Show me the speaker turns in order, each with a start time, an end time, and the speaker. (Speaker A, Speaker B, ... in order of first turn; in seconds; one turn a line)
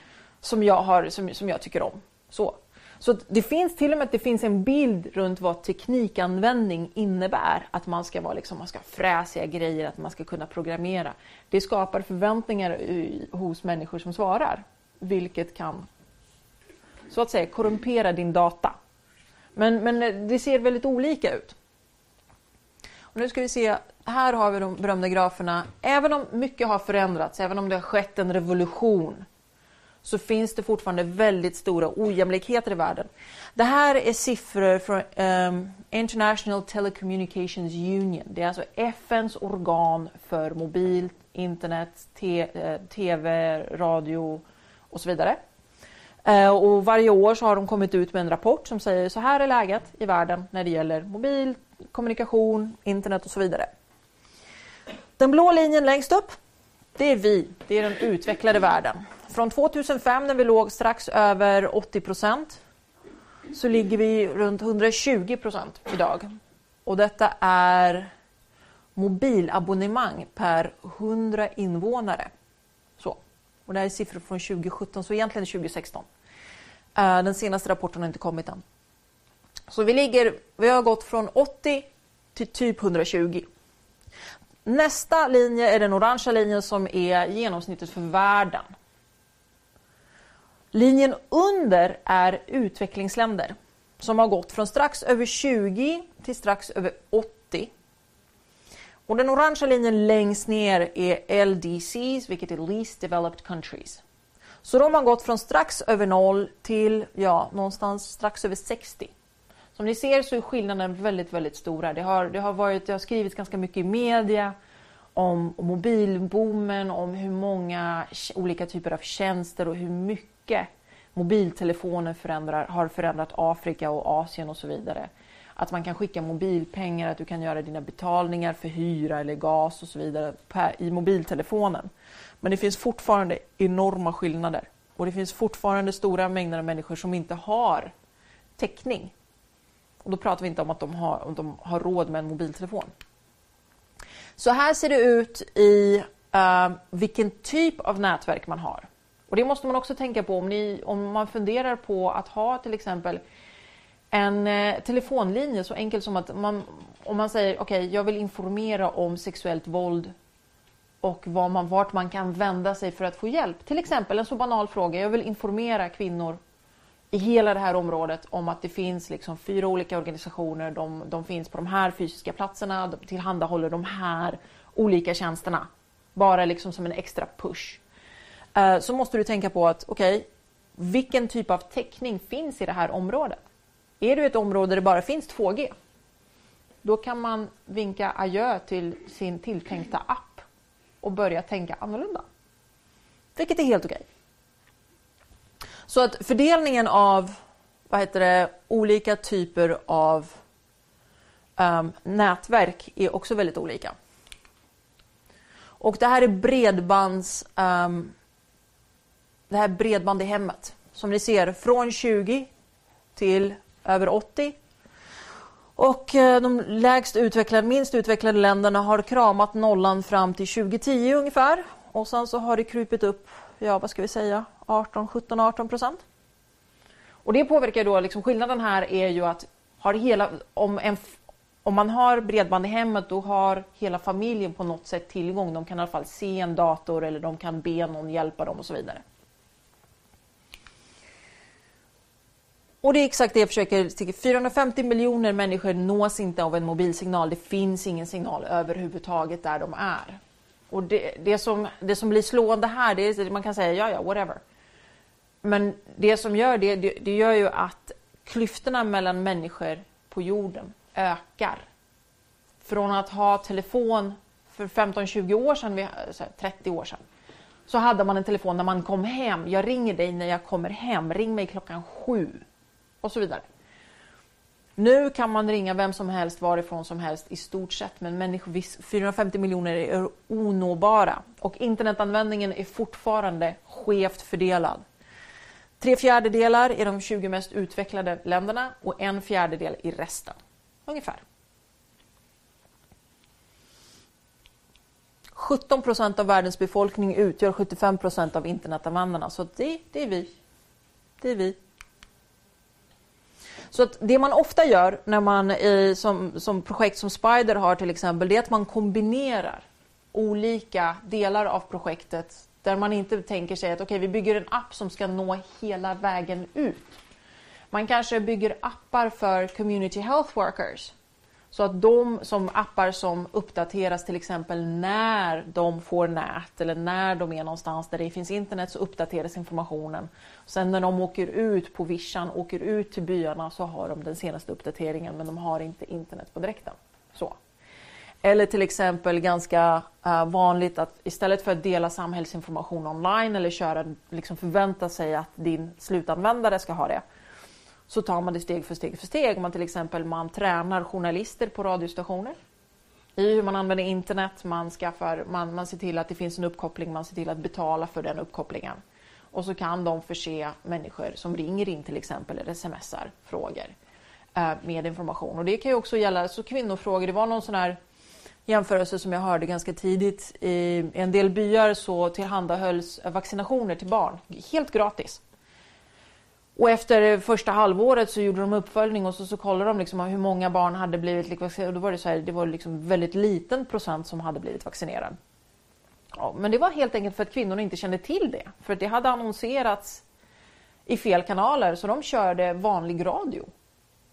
Speaker A: 0.4-15.9
Speaker A: 17.1-18.8
Speaker A: 19.5-21.6
Speaker A: 23.1-29.2
Speaker A: 30.0-45.4
Speaker A: 46.2-53.7
Speaker A: 55.2-56.3
Speaker A: 57.0-62.6
Speaker A: 63.5-66.3
Speaker A: 66.8-68.1
Speaker A: 69.0-72.3
Speaker A: 73.0-76.1
Speaker A: 77.0-78.6
Speaker A: 79.7-83.5
Speaker A: 84.6-88.7
Speaker A: 90.7-97.7
Speaker A: 99.1-104.0
Speaker A: 104.6-109.1
Speaker A: 109.8-114.5
Speaker A: 115.1-131.9
Speaker A: 132.4-137.9
Speaker A: 138.6-139.1
Speaker A: 140.0-142.9
Speaker A: 144.4-153.2
Speaker A: 154.1-160.1
Speaker A: 161.0-166.4
Speaker A: 167.1-177.8
Speaker A: 178.5-183.4
Speaker A: 184.0-185.7
Speaker A: 186.8-190.4
Speaker A: 191.0-192.2
Speaker A: 193.3-194.0
Speaker A: 195.9-197.4
Speaker A: 197.9-200.4
Speaker A: 201.6-203.9
Speaker A: 205.8-208.1
Speaker A: 209.5-212.5
Speaker A: 213.1-214.6
Speaker A: 215.8-226.0
Speaker A: 227.2-239.0
Speaker A: 242.8-250.2
Speaker A: 250.7-254.4
Speaker A: 255.4-261.6
Speaker A: 262.6-267.0
Speaker A: 267.7-272.4
Speaker A: 273.0-273.4
Speaker A: 274.8-284.8
Speaker A: 285.8-291.2
Speaker A: 295.3-300.3
Speaker A: 301.2-301.6
Speaker A: 303.7-317.0
Speaker A: 317.7-320.9
Speaker A: 321.5-337.4
Speaker A: 338.2-347.0
Speaker A: 347.9-352.3
Speaker A: 353.1-358.8
Speaker A: 359.3-363.7
Speaker A: 364.4-367.8
Speaker A: 368.5-375.2
Speaker A: 376.6-385.2
Speaker A: 386.1-390.0
Speaker A: 390.9-393.5